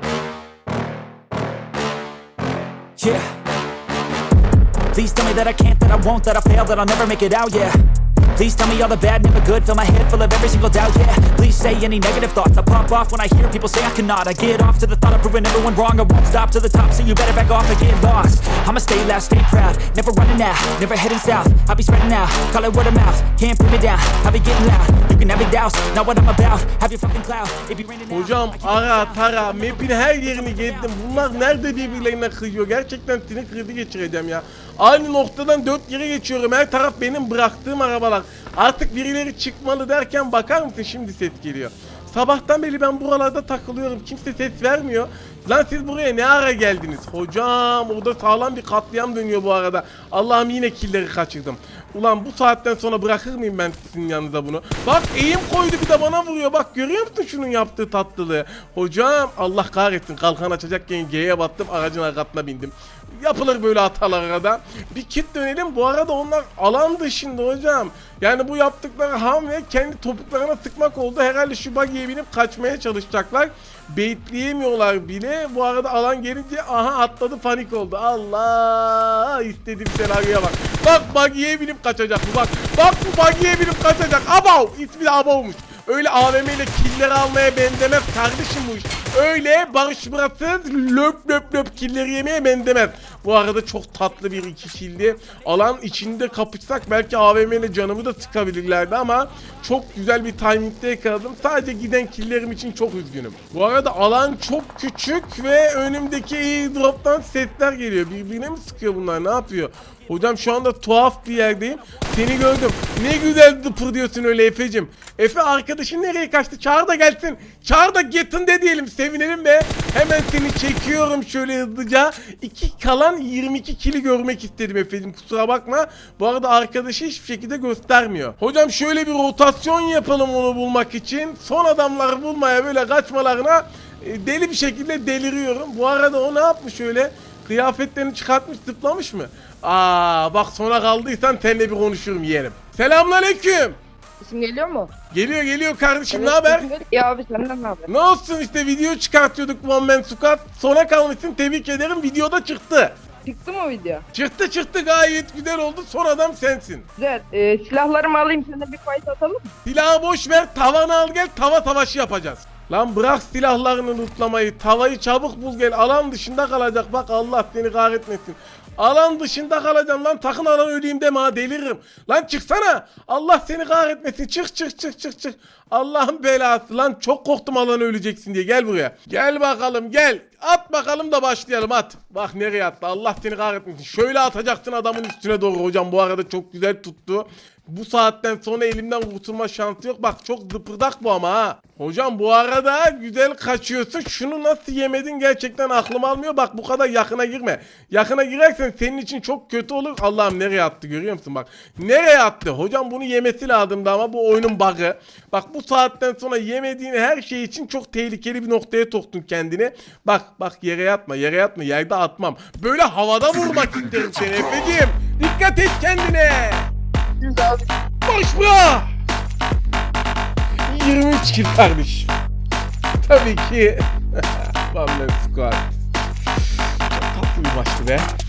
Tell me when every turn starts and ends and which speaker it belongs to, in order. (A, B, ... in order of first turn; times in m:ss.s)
0:03.0-0:03.2 A
0:04.9-0:07.8 A
0:08.3-0:31.9 A
0:28.1-2:23.8 B
2:24.2-2:24.9 C
2:25.1-2:26.7 B
2:26.1-2:27.9 C
2:27.9-2:33.0 B
2:33.2-2:34.0 C
2:34.1-2:36.9 B
2:37.0-2:39.5 C
2:39.6-3:36.7 B
3:37.2-3:37.6 C
3:38.0-3:38.9 B
3:40.6-3:42.1 B
3:43.0-3:45.8 B
3:46.9-3:48.1 B